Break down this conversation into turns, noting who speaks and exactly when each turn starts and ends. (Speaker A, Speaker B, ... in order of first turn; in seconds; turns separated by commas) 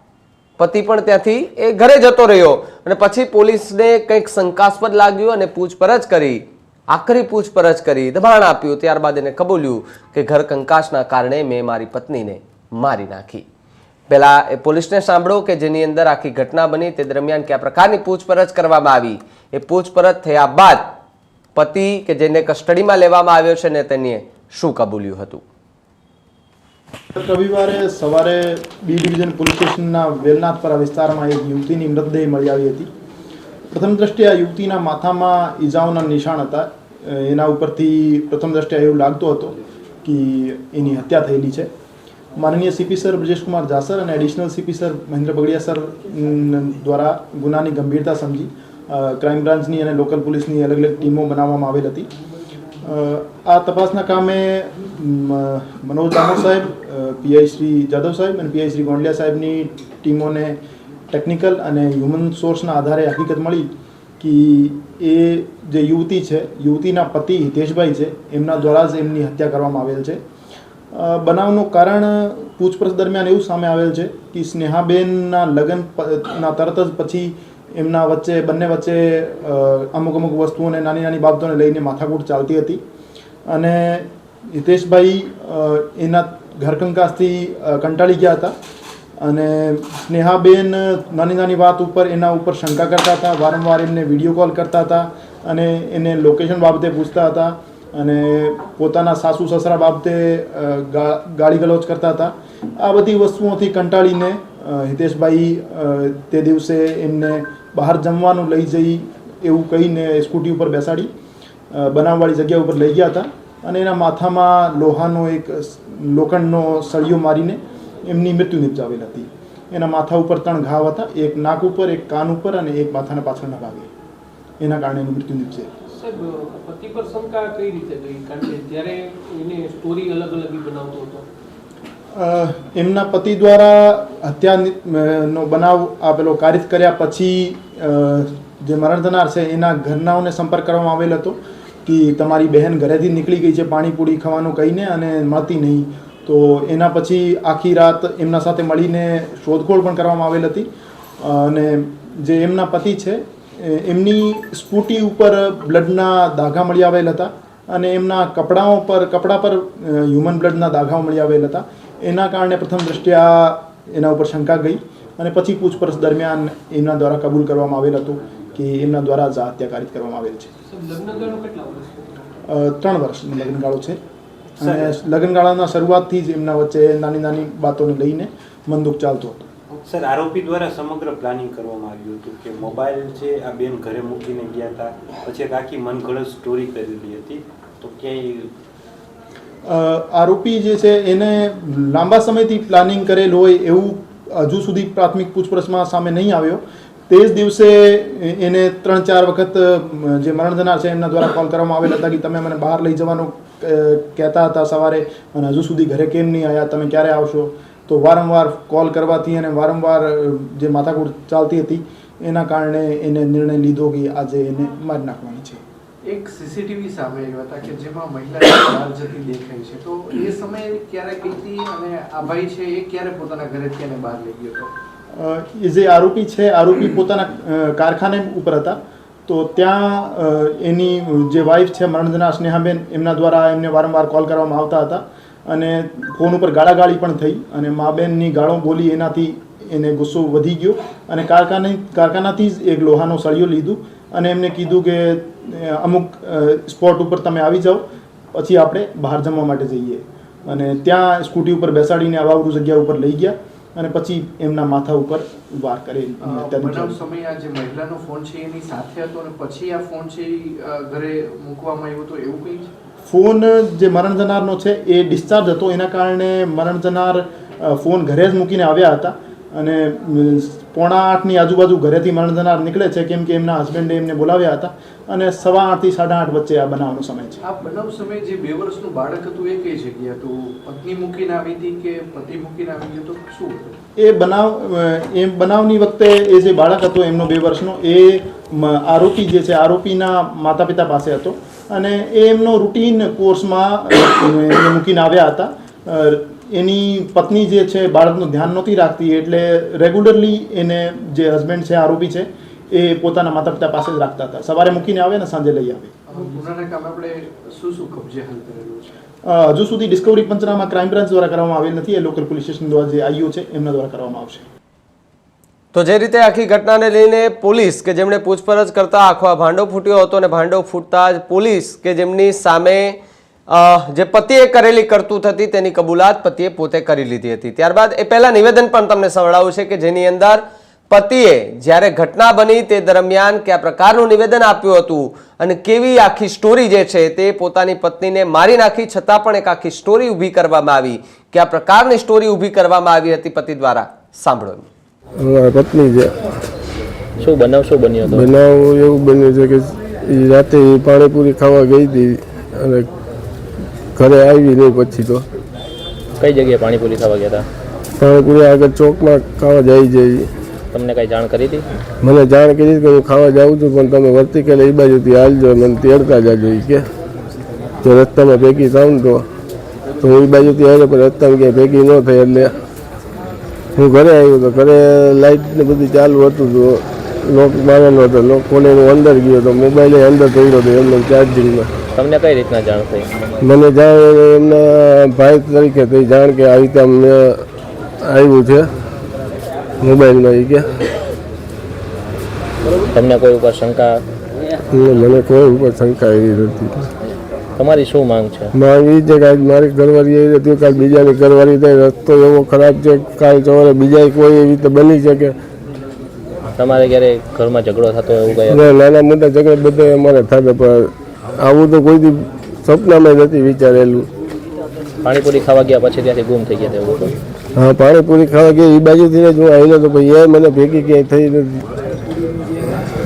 Speaker A: 0.6-13.4, Speaker A: 14.1-20.9, Speaker A: 21.5-25.4, Speaker B: 27.1-32.9, Speaker B: 33.7-41.7, Speaker B: 42.4-52.1, Speaker B: 52.8-60.6, Speaker B: 61.1-63.7, Speaker B: 64.2-70.2, Speaker B: 70.9-82.8, Speaker B: 83.5-88.5, Speaker B: 89.2-111.1, Speaker B: 111.7-123.9, Speaker B: 124.6-125.7, Speaker C: 125.9-131.2, Speaker B: 132.1-150.7, Speaker B: 151.2-170.5, Speaker C: 170.7-172.2, Speaker B: 172.5-174.0, Speaker B: 174.6-179.5, Speaker D: 174.6-175.0, Speaker D: 179.8-188.5, Speaker B: 189.7-215.6, Speaker E: 216.0-224.7, Speaker B: 225.1-247.8, Speaker B: 248.3-257.0, Speaker E: 256.2-262.7, Speaker B: 263.0-277.4, Speaker E: 277.4-283.8, Speaker B: 284.0-305.9, Speaker E: 306.1-308.9, Speaker B: 309.2-314.4, Speaker A: 315.7-323.0, Speaker A: 323.5-344.7, Speaker F: 345.2-346.1, Speaker G: 347.2-348.4, Speaker F: 348.1-352.9, Speaker F: 354.0-355.2, Speaker G: 356.2-357.4, Speaker F: 358.0-360.3, Speaker G: 360.7-361.6, Speaker F: 362.0-366.9, Speaker F: 367.8-369.2, Speaker F: 370.0-372.5, Speaker F: 373.8-381.7, Speaker G: 381.9-383.1, Speaker F: 383.4-387.4, Speaker F: 388.1-388.6, Speaker F: 389.8-390.7, Speaker G: 392.8-394.0, Speaker F: 394.7-396.9, Speaker G: 397.6-398.5, Speaker F: 398.5-405.4, Speaker G: 406.6-408.7, Speaker F: 408.5-414.1, Speaker G: 415.0-417.1, Speaker F: 417.6-421.6